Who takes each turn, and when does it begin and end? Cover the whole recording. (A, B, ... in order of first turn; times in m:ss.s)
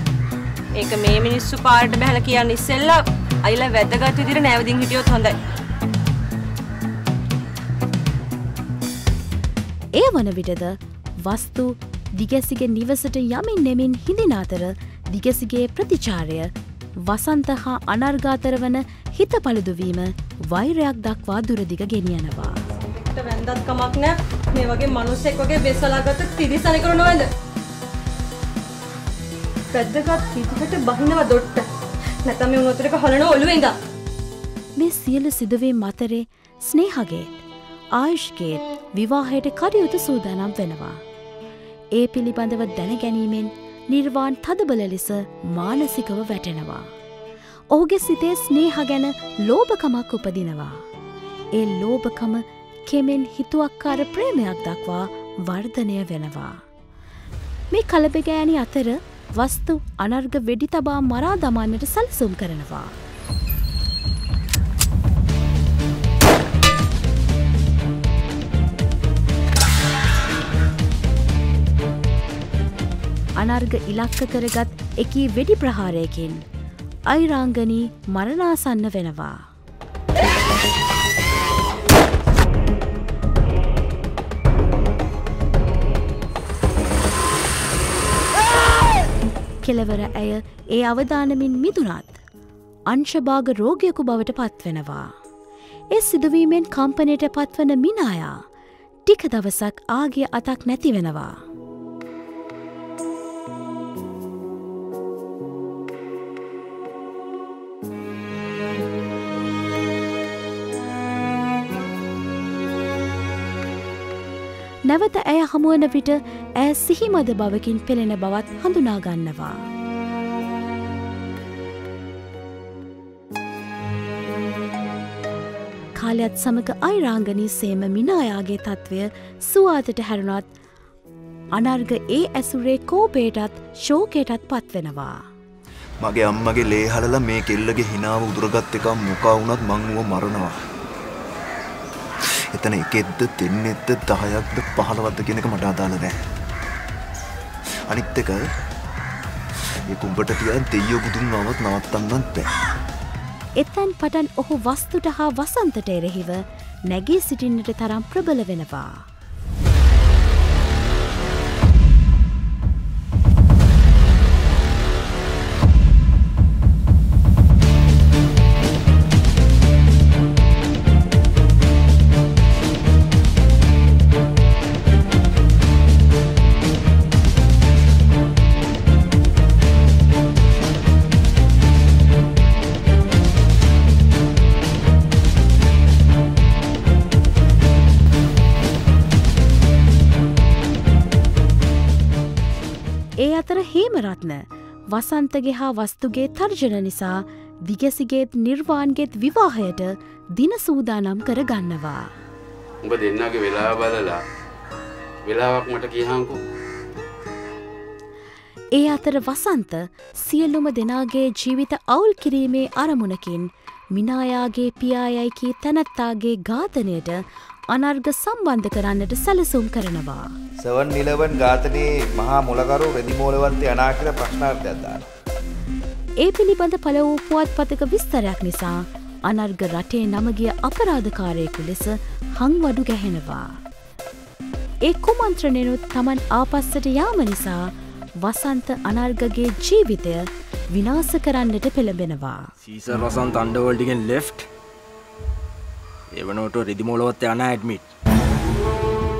0:00.8-0:05.4 A
0:09.9-0:22.6 B
0:22.8-0:27.3 A
0:29.7-0:31.6 A
0:32.2-0:33.7 A
0:34.8-0:37.4 B
0:37.9-0:41.0 B
0:41.9-0:46.9 B
0:47.7-0:50.8 B
0:51.5-0:56.6 B
0:57.7-1:02.9 B
1:13.4-1:16.4 B
1:17.1-1:19.4 B
1:29.6-1:32.2 B
1:32.9-1:35.1 B
1:35.9-1:38.4 B
1:39.0-1:41.3 B
1:54.9-1:59.6 B
2:06.0-2:10.5 B
2:11.5-2:15.2 B
2:16.0-2:20.6 C
2:22.5-2:26.2 C
2:27.9-2:28.4 C
2:29.9-2:32.5 C
2:33.6-2:38.9 B
3:13.2-3:22.1 B
3:22.8-3:24.2 D
3:25.2-3:26.4 D
3:28.7-3:37.2 B
3:37.7-3:40.4 B
3:40.6-3:45.0 E
3:46.2-3:53.6 B
3:54.8-3:57.7 B
3:58.2-4:02.5 B
4:02.6-4:04.4 F
4:06.2-4:07.9 F